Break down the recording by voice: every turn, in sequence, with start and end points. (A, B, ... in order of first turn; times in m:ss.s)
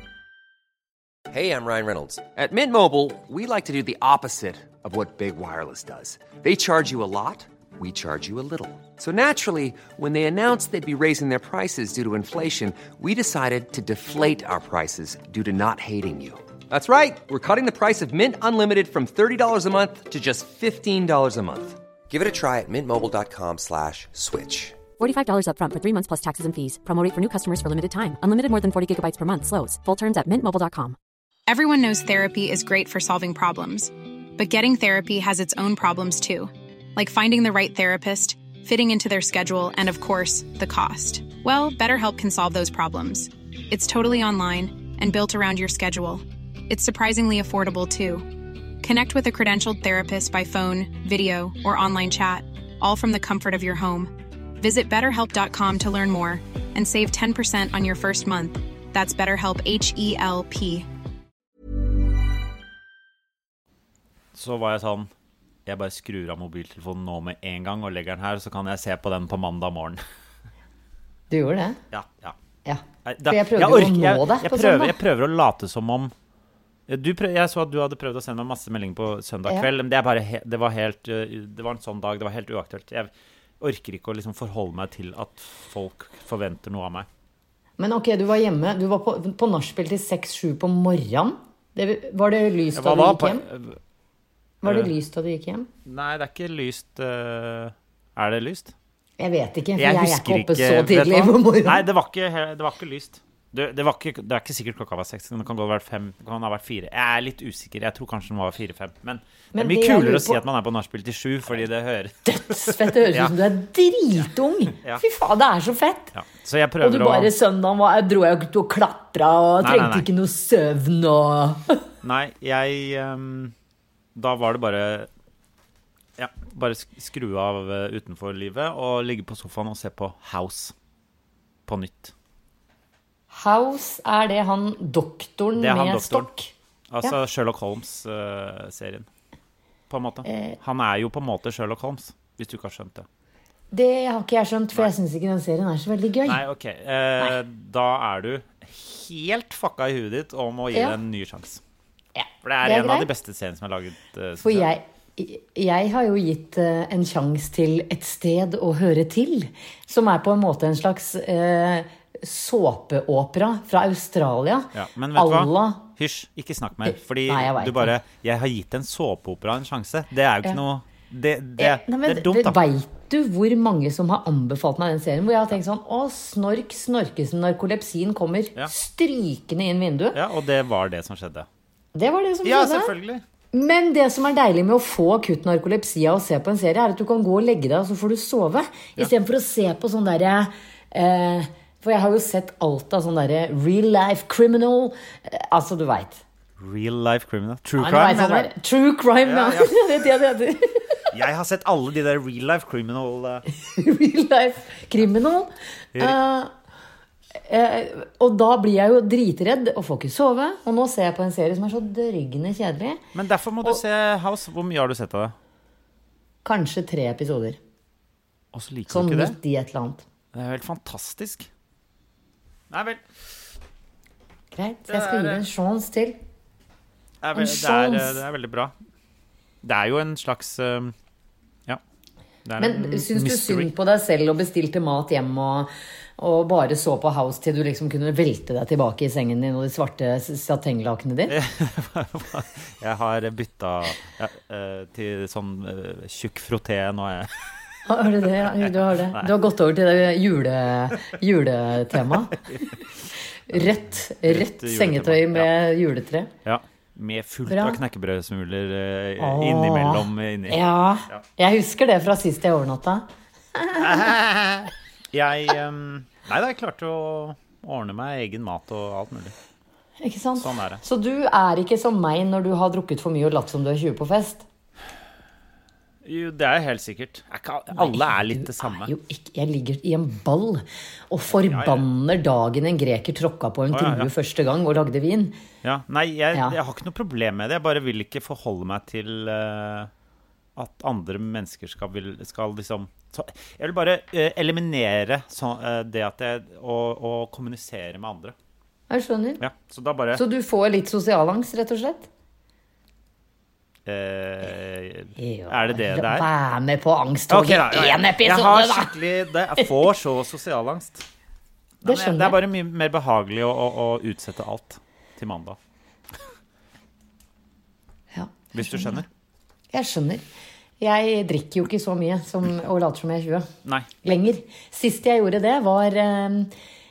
0:01.3-0:24.8 A
0:25.0-0:31.0 B
0:31.5-1:00.9 C
1:04.3-1:05.1 D
1:05.6-1:10.0 D
1:11.3-1:11.8 E
1:11.9-1:12.4 D
1:12.6-1:14.9 E
1:13.0-1:16.1 D
1:16.9-1:27.1 D
1:27.8-1:33.4 E
1:32.7-1:33.8 D
1:34.6-1:35.7 E
1:34.6-1:34.9 D
1:35.8-1:38.7 D
1:39.2-1:41.8 E
1:39.8-1:53.3 D
1:49.5-1:50.4 E
1:52.2-1:56.1 E
1:56.1-1:57.3 D
1:56.8-2:01.8 E
1:59.6-2:00.0 D
2:02.0-2:03.5 D
2:04.1-2:05.1 D
2:06.2-2:10.7 D
2:11.7-2:12.1 D
2:13.3-2:17.1 E
2:15.6-2:16.3 D
2:16.9-2:19.1 D
2:19.9-2:23.0 D
2:20.2-2:20.6 E
2:23.7-2:26.4 E
2:26.2-2:31.6 D
2:32.2-2:33.1 E
2:32.4-2:34.7 D
2:34.4-2:45.8 E
2:44.7-2:52.6 D
2:46.8-2:47.9 E
2:51.6-3:00.2 E
3:00.1-3:01.5 D
3:01.9-3:02.9 E
3:02.4-3:03.2 D
3:03.5-3:16.2 E
3:16.6-3:18.5 D
3:17.8-3:21.0 E
3:19.2-3:19.8 D
3:21.1-3:23.4 D
3:23.5-3:26.5 E
3:27.5-3:33.0 E
3:33.1-3:35.3 D
3:36.4-3:37.6 E
3:38.5-3:39.4 D
3:38.9-3:40.0 E
3:40.3-3:41.5 D
3:42.7-3:43.0 D
3:44.5-3:46.2 E
3:44.9-3:45.4 D
3:47.2-3:48.7 D
3:47.3-3:48.2 E
3:49.6-3:50.9 D
3:52.4-3:53.7 D
3:52.6-4:01.4 E
4:01.3-4:07.3 D
4:07.9-4:12.4 E
4:08.4-4:09.3 D
4:12.4-4:12.7 D
4:13.5-4:16.3 E
4:13.5-4:15.5 D
4:16.4-4:21.2 D
4:17.5-4:17.8 E
4:19.2-4:24.0 E
4:23.8-4:29.3 D
4:30.0-4:34.4 E
4:30.4-4:30.8 D
4:36.0-4:38.9 D
4:37.7-4:45.4 E
4:41.3-4:41.8 D
4:43.7-4:44.1 D
4:45.6-4:49.9 D
4:50.6-4:58.3 D
4:58.9-4:59.4 E
4:59.4-5:00.2 D
5:00.1-5:02.1 E
5:03.8-5:06.3 D
5:05.2-5:08.9 E
5:07.3-5:11.0 D
5:11.8-5:15.6 D
5:11.8-5:12.4 E
5:18.1-5:19.0 E
5:18.5-5:19.0 D
5:19.7-5:20.2 E
5:20.8-5:23.5 E
5:24.0-5:26.5 E